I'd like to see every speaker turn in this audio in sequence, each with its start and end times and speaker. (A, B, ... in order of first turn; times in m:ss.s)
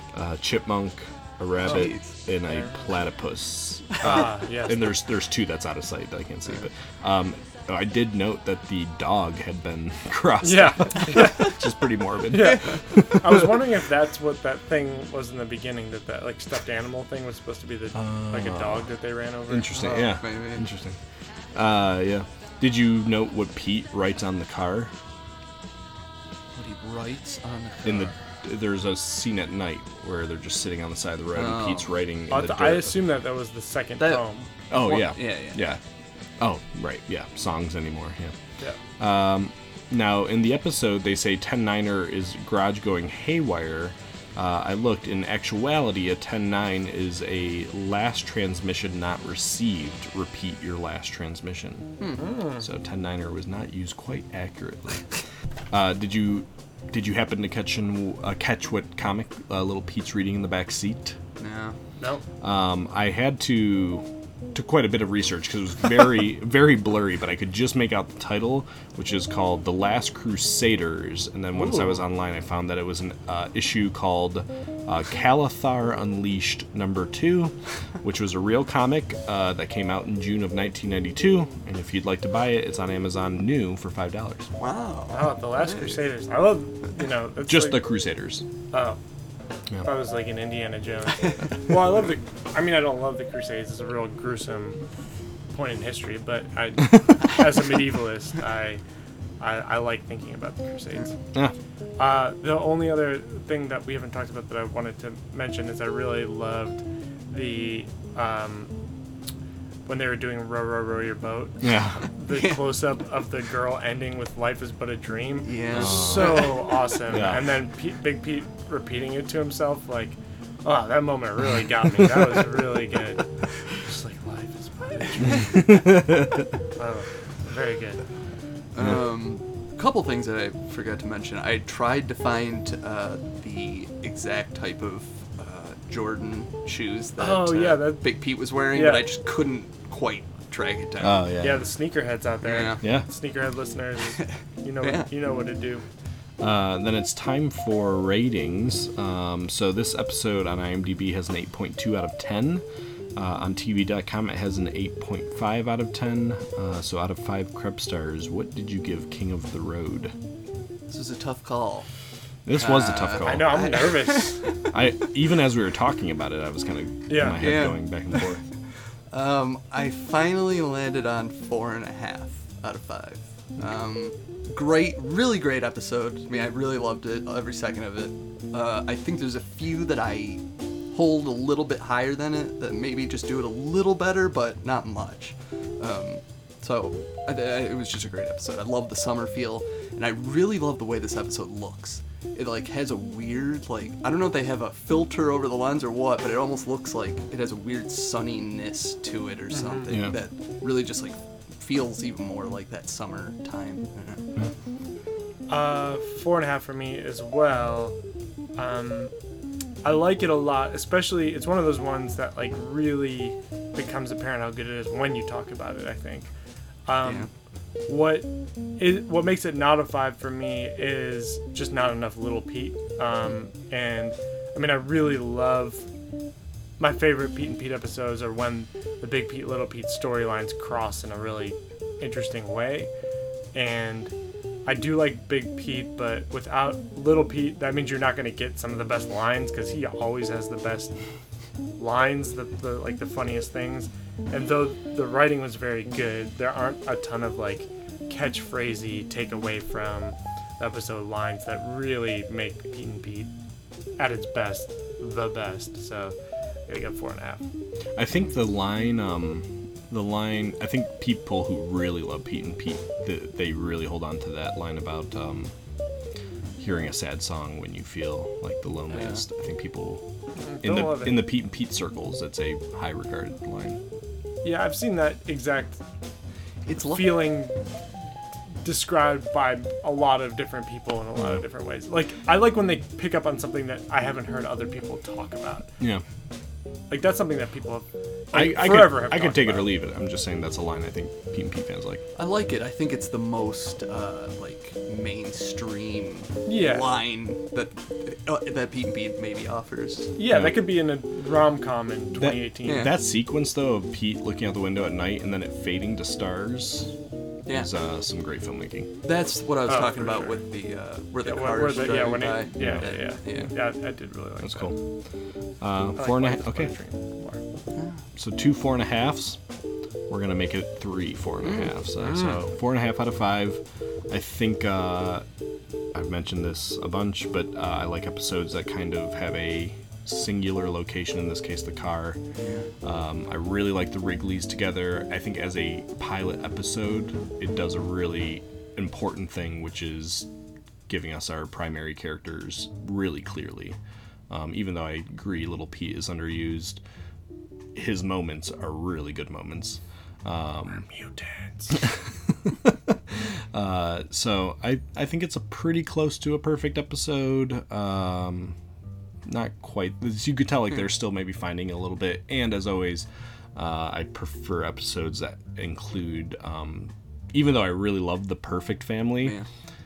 0:00.1-0:13.6 A
0:01.6-0:02.2 B
0:01.6-0:02.9 C
0:04.0-0:04.9 C
0:10.4-0:11.5 C
0:12.3-0:20.2 C
0:12.4-0:12.8 B
0:17.9-0:18.9 A
0:19.5-0:21.0 A
0:19.9-0:20.6 B
0:21.5-0:24.9 A
0:26.6-0:28.2 B
0:27.8-0:33.0 A
0:31.3-0:31.9 B
0:32.3-0:34.5 C
0:34.0-0:35.7 B
0:34.7-0:35.8 A
0:36.4-0:38.4 A
0:39.0-0:52.0 A
0:52.0-0:52.4 B
0:52.2-0:52.6 C
0:52.6-0:55.1 A
0:55.7-1:01.2 A
1:01.4-1:01.8 B
1:02.4-1:24.5 A
1:11.6-1:12.0 C
1:24.6-1:26.1 B
1:25.1-1:27.9 C
1:27.4-1:28.4 A
1:28.7-1:29.0 C
1:29.8-1:34.8 C
1:35.5-1:38.8 C
1:39.4-1:41.2 C
1:42.0-1:48.7 C
1:49.9-2:05.7 C
1:51.6-1:52.0 A
1:52.3-1:52.7 B
1:55.4-1:56.6 B
1:55.7-1:56.6 A
1:57.1-1:57.6 A
2:02.0-2:02.3 A
2:05.5-2:06.5 A
2:06.8-2:08.0 C
2:08.7-2:21.3 B
2:17.2-2:18.1 C
2:18.7-2:19.1 C
2:21.0-2:21.7 A
2:21.4-2:25.8 C
2:22.4-2:22.8 B
2:22.8-2:23.1 A
2:24.2-2:25.1 B
2:26.4-2:32.6 A
2:33.2-2:40.2 A
2:40.9-2:41.9 B
2:42.5-2:43.7 A
2:42.6-2:44.5 B
2:43.2-2:44.4 C
2:44.7-2:48.4 A
2:47.1-2:47.4 C
2:47.4-2:48.3 B
2:49.1-3:24.3 B
3:19.5-3:19.9 C
3:19.9-3:20.2 A
3:25.5-3:28.0 C
3:28.6-3:29.1 C
3:29.8-3:36.3 C
3:36.9-3:37.3 C
3:37.0-3:37.3 B
3:37.9-3:45.9 C
3:46.8-3:52.9 C
3:53.5-3:54.1 C
3:54.7-4:00.9 C
4:01.8-4:13.3 C
4:14.0-4:16.2 C
4:16.7-4:17.4 C
4:18.0-4:25.5 A
4:26.6-4:30.0 A
4:28.9-4:29.2 B
4:30.4-4:31.3 C
4:30.6-4:33.8 A
4:34.4-4:35.8 C
4:36.7-4:37.4 B
4:36.8-4:37.6 C
4:38.6-4:45.7 C
4:46.9-4:49.8 C
4:48.3-4:52.0 A
4:52.2-5:00.1 B
4:56.5-4:56.9 C
5:00.2-5:02.9 C
5:00.3-5:00.7 A
5:02.2-5:06.9 A
5:02.6-5:03.0 B
5:07.5-5:08.9 A
5:09.0-5:13.6 B
5:09.7-5:10.4 C
5:11.2-5:14.8 C
5:12.6-5:12.9 A
5:14.4-5:14.8 A
5:15.6-5:16.7 A
5:16.0-5:17.4 C
5:17.7-5:18.0 B
5:18.2-5:19.4 A
5:20.1-5:25.2 A
5:21.4-5:21.7 B
5:22.0-5:22.4 C
5:25.9-5:32.2 A
5:32.4-5:32.7 B
5:32.8-5:40.3 A
5:40.9-5:43.8 A
5:44.3-5:46.8 A
5:47.7-5:50.9 A
5:50.7-5:51.8 C
5:51.7-5:58.6 A
5:59.3-6:09.4 A